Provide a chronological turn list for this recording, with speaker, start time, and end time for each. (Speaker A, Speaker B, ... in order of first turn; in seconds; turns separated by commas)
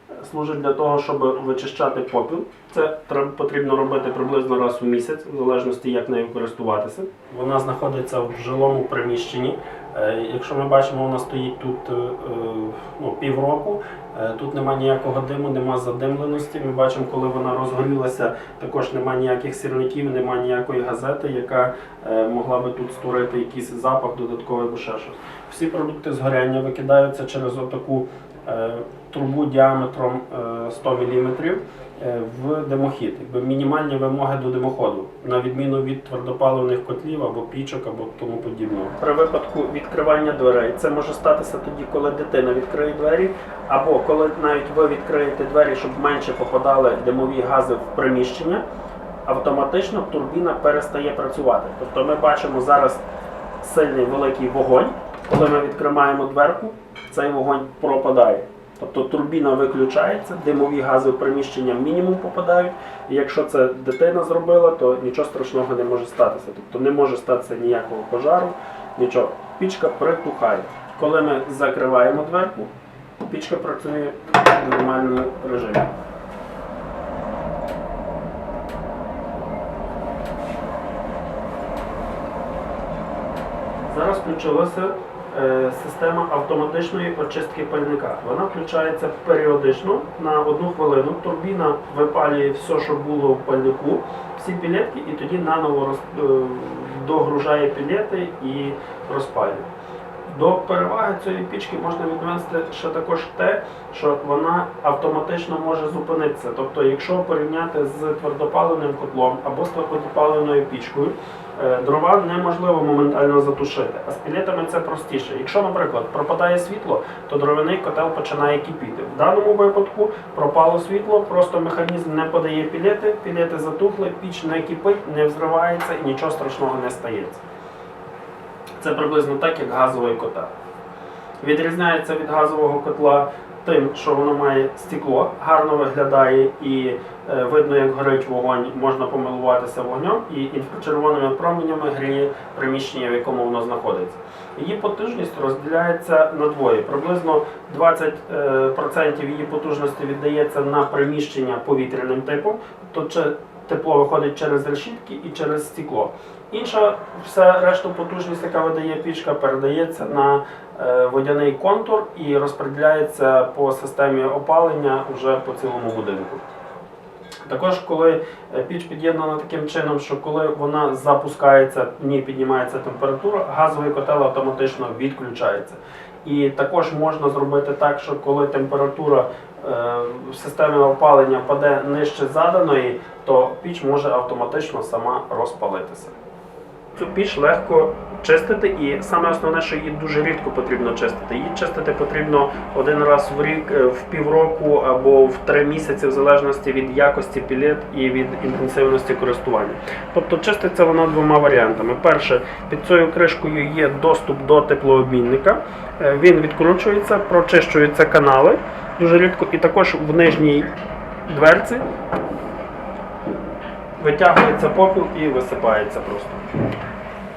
Speaker A: 0.2-48.6, Speaker A: 49.2-53.0, Speaker A: 53.6-75.9, Speaker A: 83.9-99.7, Speaker A: 100.3-127.4, Speaker A: 128.8-130.5, Speaker A: 131.4-166.4, Speaker A: 167.5-186.2, Speaker A: 186.9-210.7, Speaker A: 211.3-211.8, Speaker A: 214.0-216.4